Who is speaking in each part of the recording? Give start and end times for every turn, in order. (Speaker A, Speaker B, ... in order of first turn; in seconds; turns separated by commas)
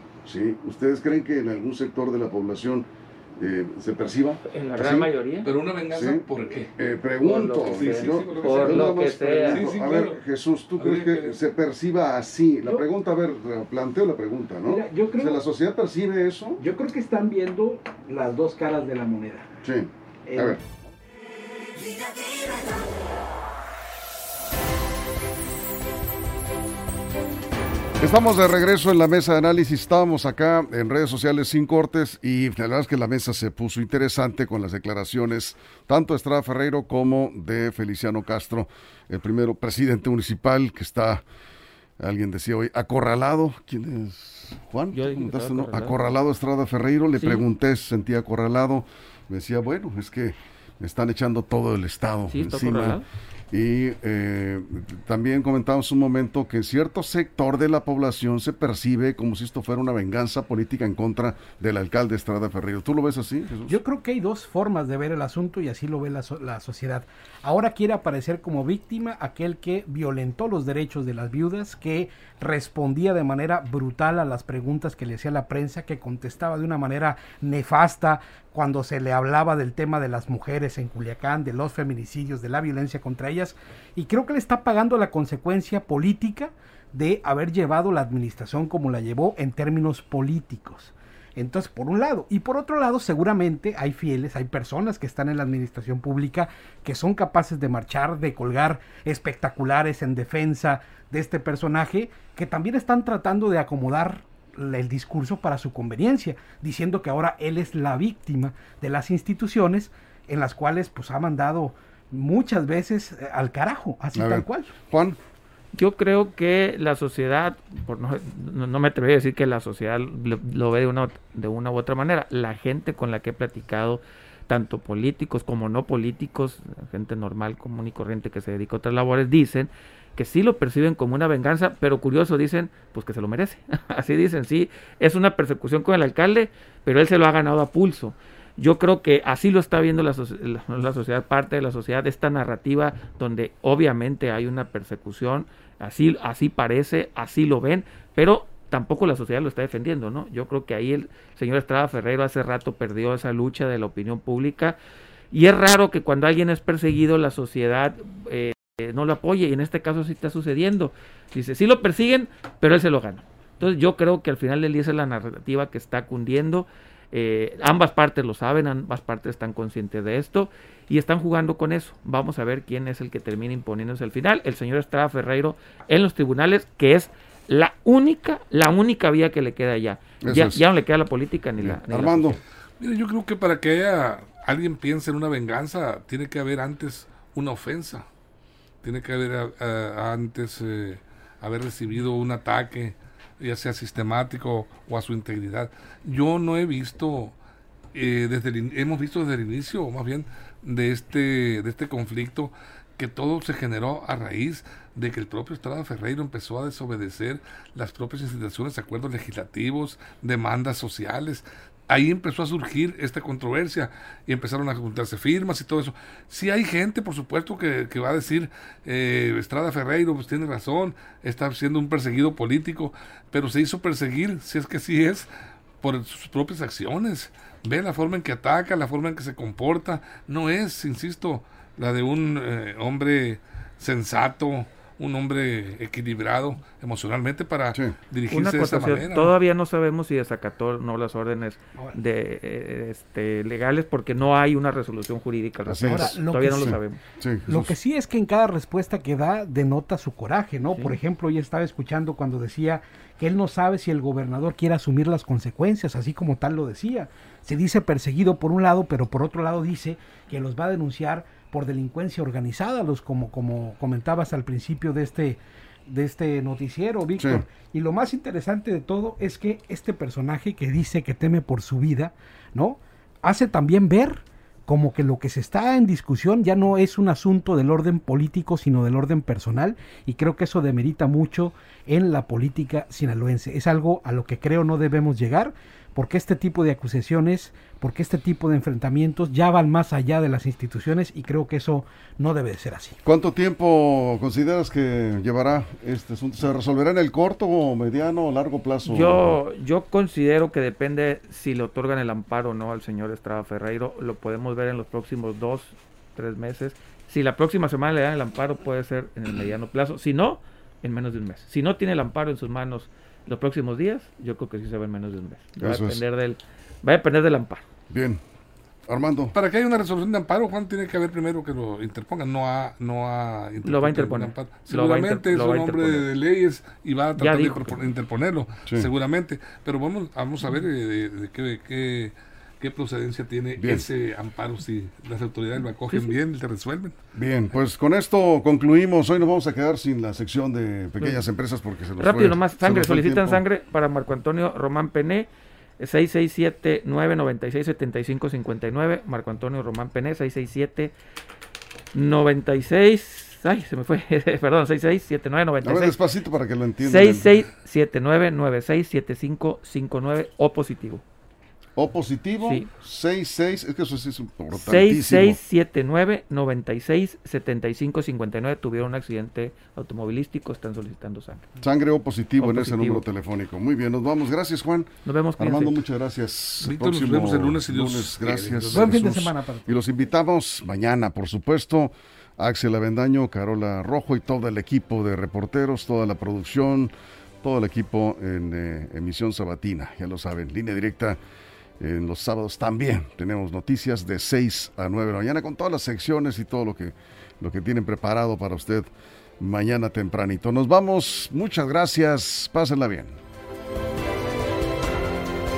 Speaker A: 0.2-5.1, Speaker B: 4.4-5.5, Speaker C: 5.4-6.7, Speaker A: 5.9-6.2, Speaker A: 6.8-16.6, Speaker B: 7.2-9.7, Speaker C: 7.3-10.2, Speaker C: 10.8-11.4, Speaker D: 14.7-15.4, Speaker D: 16.6-19.5, Speaker A: 19.6-20.6, Speaker D: 20.2-20.6, Speaker A: 28.0-41.2, Speaker A: 42.0-53.0, Speaker B: 44.9-46.0, Speaker B: 52.3-53.0, Speaker A: 53.5-63.8, Speaker D: 63.7-114.7, Speaker A: 114.1-115.2, Speaker B: 115.7-154.8, Speaker B: 155.3-182.4, Speaker A: 180.2-180.6, Speaker A: 181.6-182.4, Speaker C: 182.8-188.1, Speaker C: 188.8-197.3, Speaker C: 197.9-225.3, Speaker C: 225.8-239.3, Speaker B: 238.3-247.0, Speaker A: 245.7-247.7, Speaker D: 245.8-246.8, Speaker D: 247.5-293.0, Speaker B: 250.7-251.0, Speaker A: 267.2-267.4, Speaker A: 293.0-299.4, Speaker B: 298.8-317.6, Speaker A: 315.6-316.0, Speaker A: 317.9-318.2, Speaker A: 318.9-319.3, Speaker C: 319.3-337.0, Speaker B: 323.6-326.1, Speaker B: 327.2-327.8, Speaker A: 333.6-333.9, Speaker A: 337.1-343.4, Speaker B: 342.0-350.9, Speaker B: 351.9-356.0, Speaker A: 355.6-357.3, Speaker B: 356.8-361.0, Speaker A: 361.8-365.4, Speaker B: 362.4-362.7, Speaker B: 364.5-371.4, Speaker A: 371.6-391.2, Speaker B: 372.4-373.0, Speaker B: 375.0-375.8, Speaker C: 376.6-379.0, Speaker D: 378.7-379.7, Speaker A: 391.8-403.2